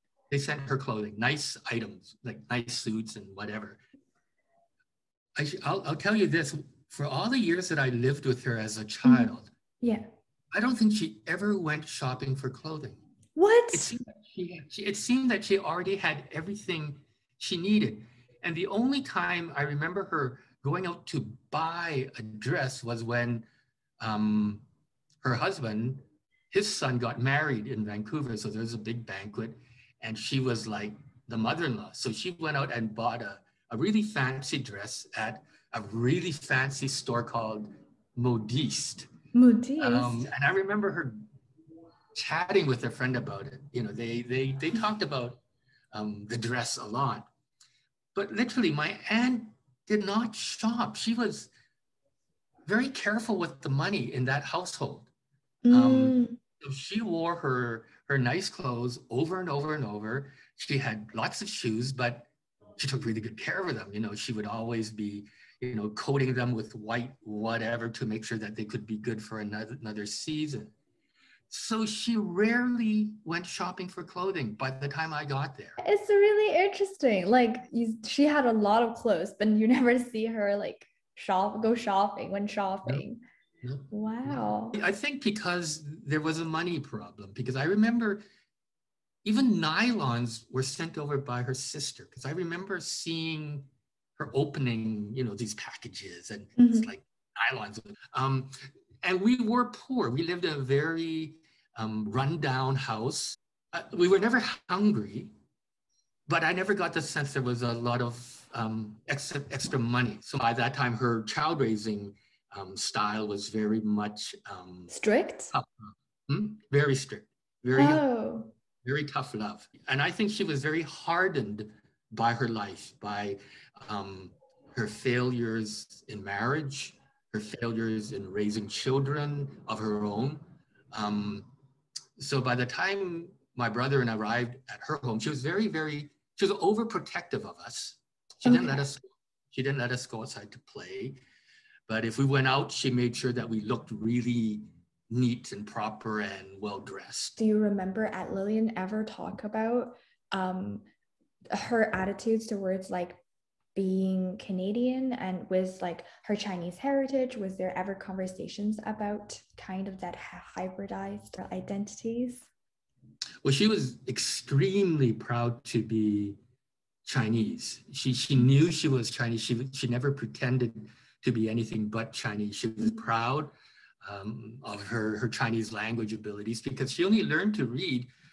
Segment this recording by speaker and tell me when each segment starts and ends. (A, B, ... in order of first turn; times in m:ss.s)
0:00.3-0:03.8 A
0:05.4-0:09.5 A
0:09.0-0:10.1 B
0:10.5-0:13.0 A
0:13.4-0:13.9 B
0:13.7-0:23.5 A
0:24.0-0:24.6 A
0:25.2-0:39.1 A
0:39.3-0:40.3 B
0:39.8-0:41.2 A
0:42.1-0:45.4 A
0:45.9-0:47.3 A
0:48.2-0:51.5 A
0:52.7-0:55.1 A
0:55.7-0:56.4 B
0:55.7-1:10.7 A
1:11.5-1:15.8 A
1:15.8-1:23.2 B
1:23.6-1:28.2 A
1:23.9-1:24.8 B
1:29.2-1:45.3 A
1:36.6-1:36.9 B
1:46.3-1:54.9 A
1:54.9-1:55.5 B
1:55.5-1:58.0 A
1:57.8-1:58.5 B
1:58.8-2:11.5 A
2:12.2-2:21.2 A
2:18.4-2:18.8 B
2:21.9-2:27.4 A
2:27.4-2:30.8 B
2:31.5-2:33.2 B
2:33.8-2:42.5 B
2:43.4-2:46.4 A
2:47.0-2:53.5 A
2:54.0-2:58.1 A